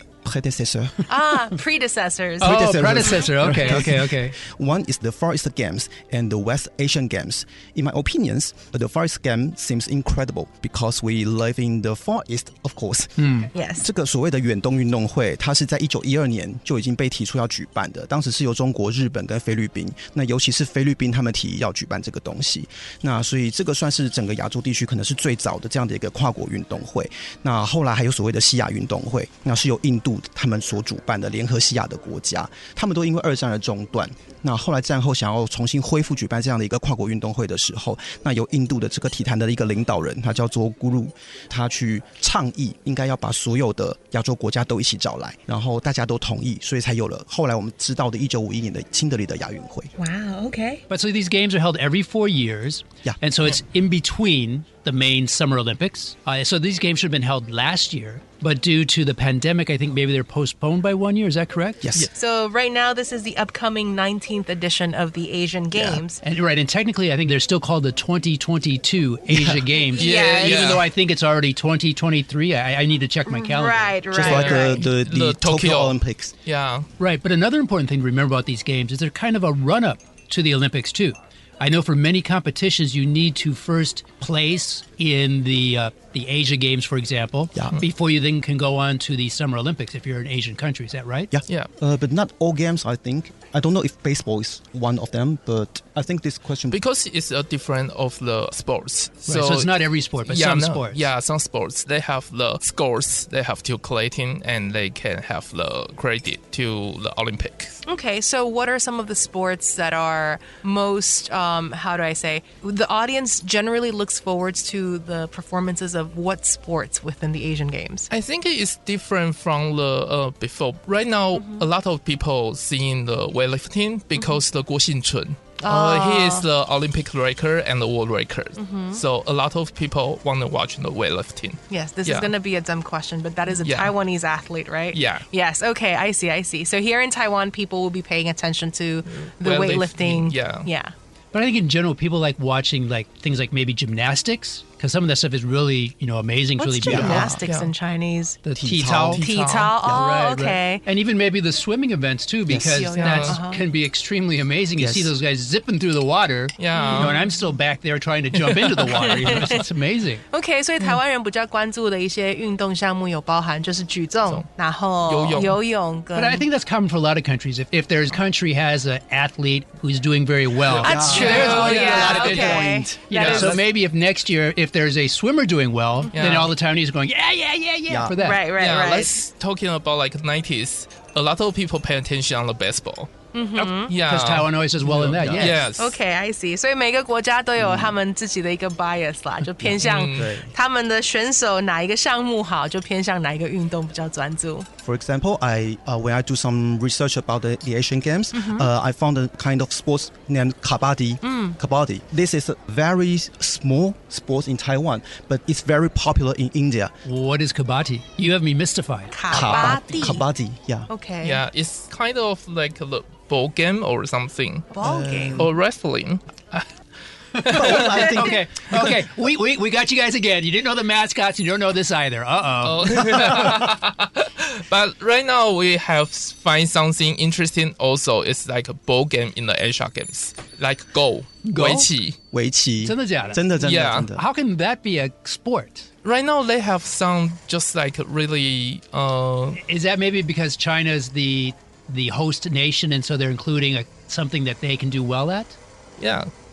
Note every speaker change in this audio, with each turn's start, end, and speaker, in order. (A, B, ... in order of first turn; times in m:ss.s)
0:00.2-0:01.1 A
0:01.1-0:03.8 B
0:02.4-0:04.4 C
0:02.4-0:49.9 A
0:13.2-0:13.5 C
0:13.5-0:13.9 B
0:50.0-0:50.8 B
0:50.9-1:02.0 C
1:01.8-1:02.1 A
1:02.1-1:06.2 B
1:05.7-1:06.0 A
1:06.2-1:14.1 C
1:09.3-1:09.6 A
1:09.9-1:10.8 B
1:09.9-1:10.9 D
1:13.3-1:14.8 B
1:14.1-1:16.3 A
1:14.2-1:16.9 D
1:17.0-1:31.3 C
1:31.3-1:36.8 A
1:36.7-1:47.8 D
1:39.3-1:41.1 C
1:47.9-1:58.1 B
1:58.1-2:12.3 D
2:01.3-2:01.7 B
2:04.2-2:04.4 B
2:05.6-2:06.5 B
2:08.6-2:09.0 B
2:11.7-2:20.9 B
2:13.6-2:13.9 D
2:14.9-2:15.2 D
2:19.1-2:20.7 D
2:21.3-2:27.4 C
2:26.6-2:28.4 B
2:26.8-2:27.4 A
2:27.4-2:27.7 D
2:28.4-2:29.3 C
2:28.6-2:29.2 A
2:29.1-2:29.7 D
2:29.2-2:30.8 B
2:29.8-2:40.2 C
2:32.5-2:32.8 A
2:32.6-2:33.6 B
2:32.9-2:33.4 D
2:34.8-2:35.1 A
2:36.6-2:37.2 D
2:36.7-2:37.3 B
2:38.7-2:39.7 B
2:40.3-2:46.4 B
2:45.1-2:45.6 D
2:46.2-2:58.5 C
2:50.7-2:53.6 B
2:50.7-2:53.6 A
2:51.0-2:52.4 D
2:53.1-2:53.6 D
2:56.1-2:56.5 D
2:57.9-2:58.2 A
2:58.2-2:59.1 B
2:58.5-3:03.1 D
3:03.3-3:04.0 B
3:03.6-3:05.7 C
3:03.9-3:04.5 D
3:05.0-3:06.0 D
3:05.2-3:05.5 A
3:05.4-3:14.7 B
3:07.6-3:08.0 A
3:09.6-3:10.5 A
3:09.8-3:10.3 D
3:14.8-3:26.9 A
3:18.3-3:18.7 B
3:21.2-3:21.6 B
3:27.0-3:29.3 C
3:29.1-3:30.2 B
3:29.3-3:30.9 A
3:29.3-3:30.1 D
3:30.9-3:31.4 B
3:31.2-3:34.7 D
3:34.7-3:35.5 B
3:34.8-3:35.5 A
3:35.4-3:36.7 D
3:37.4-3:38.0 D
3:37.4-3:43.6 C
3:37.5-3:38.4 A
3:38.1-3:38.4 B
3:42.6-3:52.2 D
3:51.4-3:51.9 C
3:52.3-3:54.2 A
3:52.8-3:53.4 C
3:53.6-3:54.1 D
3:54.1-3:55.9 C
3:56.0-3:59.6 D
3:59.6-4:05.6 C
4:06.0-4:06.3 D